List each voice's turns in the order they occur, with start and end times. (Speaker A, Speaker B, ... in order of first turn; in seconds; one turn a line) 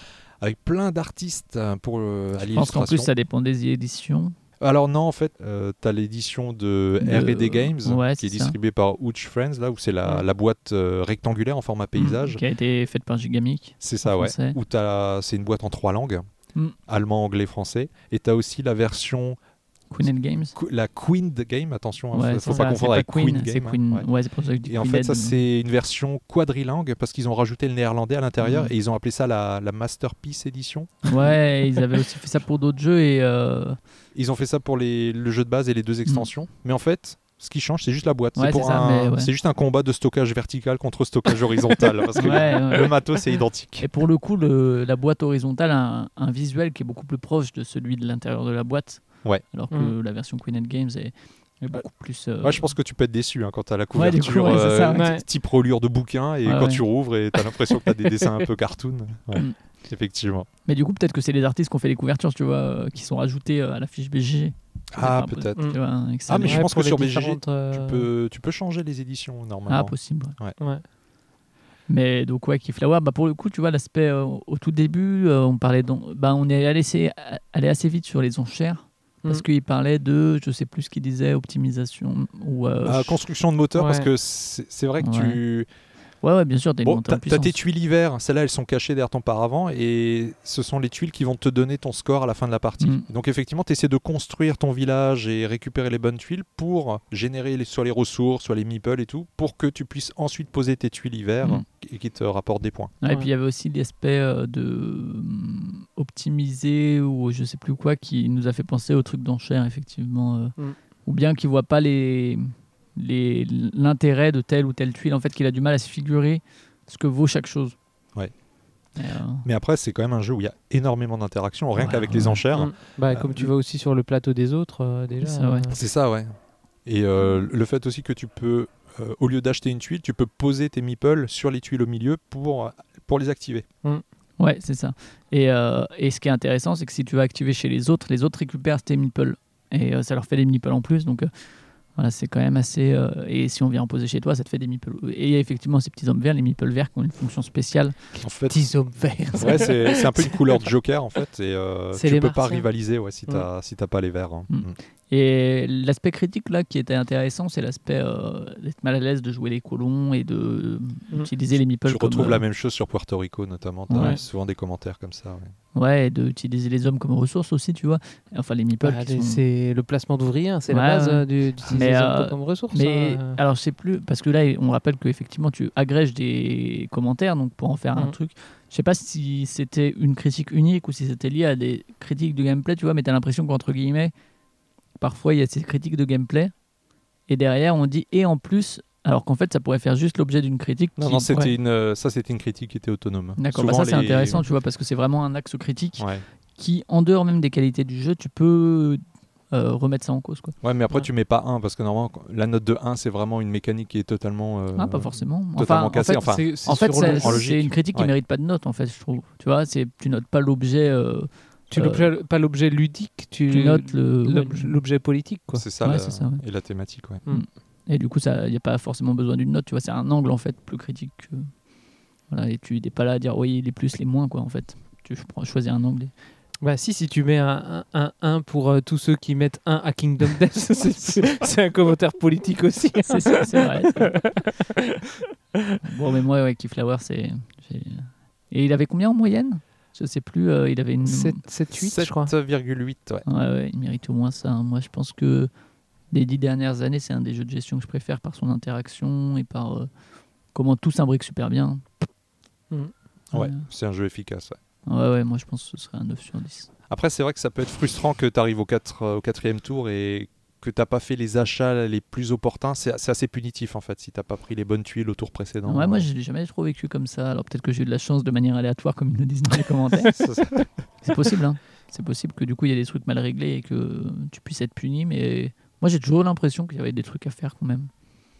Speaker A: 0.4-3.1
Speaker B: 2.5-4.3
Speaker A: 4.6-12.4
Speaker B: 7.0-8.5
Speaker B: 11.9-14.6
Speaker A: 13.8-16.2
Speaker A: 16.9-19.4
Speaker B: 19.9-20.5
Speaker A: 20.0-24.1
Speaker B: 22.1-25.4
Speaker A: 24.6-30.9
Speaker B: 28.4-28.7
Speaker B: 31.0-33.8
Speaker A: 34.1-43.8
Speaker B: 38.4-39.3
Speaker B: 42.1-43.2
Speaker B: 43.8-52.7
Speaker A: 52.4-60.5
Speaker B: 53.9-55.1
Speaker C: 54.9-55.2
Speaker B: 56.4-56.8
Speaker B: 60.6-66.7
Speaker A: 64.9-65.6
Speaker A: 66.3-70.6
Speaker C: 66.4-68.1
Speaker B: 69.7-70.4
Speaker C: 70.6-70.8
Speaker B: 71.9-83.2
Speaker A: 82.8-85.7
Speaker C: 83.7-84.1
Speaker B: 85.0-85.4
Speaker B: 86.2-87.5
Speaker A: 86.8-102.9
Speaker B: 103.0-117.8
Speaker B: 119.0-119.5
Speaker A: 119.4-123.5
Speaker B: 121.8-122.4
Speaker C: 122.5-125.8
Speaker B: 125.2-125.6
Speaker A: 125.7-126.3
Speaker A: 126.8-133.7
Speaker B: 134.4-141.3
Speaker B: 141.9-148.0
Speaker A: 148.2-148.6
Speaker C: 148.5-150.6
Speaker A: 149.4-154.8
Speaker C: 151.9-152.7
Speaker B: 154.5-162.4
Speaker A: 161.8-165.5
Speaker B: 163.9-164.2
Speaker B: 165.7-169.4
Speaker C: 168.8-173.4
Speaker B: 170.7-184.1
Speaker B: 185.0-186.5
Speaker B: 187.3-191.5
Speaker A: 191.0-194.4
Speaker B: 193.4-200.6
Speaker A: 196.0-196.2
Speaker A: 200.6-208.1
Speaker B: 204.7-212.1
Speaker C: 206.1-207.5
Speaker C: 211.7-215.6
Speaker B: 213.5-214.8
Speaker A: 215.5-217.2
Speaker B: 215.8-216.4
Speaker B: 217.3-221.5
Speaker B: 222.3-226.1
Speaker C: 226.6-235.8
Speaker B: 233.0-234.2
Speaker B: 235.8-241.4
Speaker C: 241.0-242.3
Speaker A: 241.7-243.2
Speaker B: 243.2-245.5
Speaker B: 246.1-249.9
Speaker B: 250.5-251.8
Speaker A: 253.3-254.6
Speaker B: 253.3-253.7
Speaker B: 254.9-256.7
Speaker A: 256.9-266.1
Speaker B: 265.7-270.2
Speaker A: 270.1-270.7
Speaker B: 271.0-277.9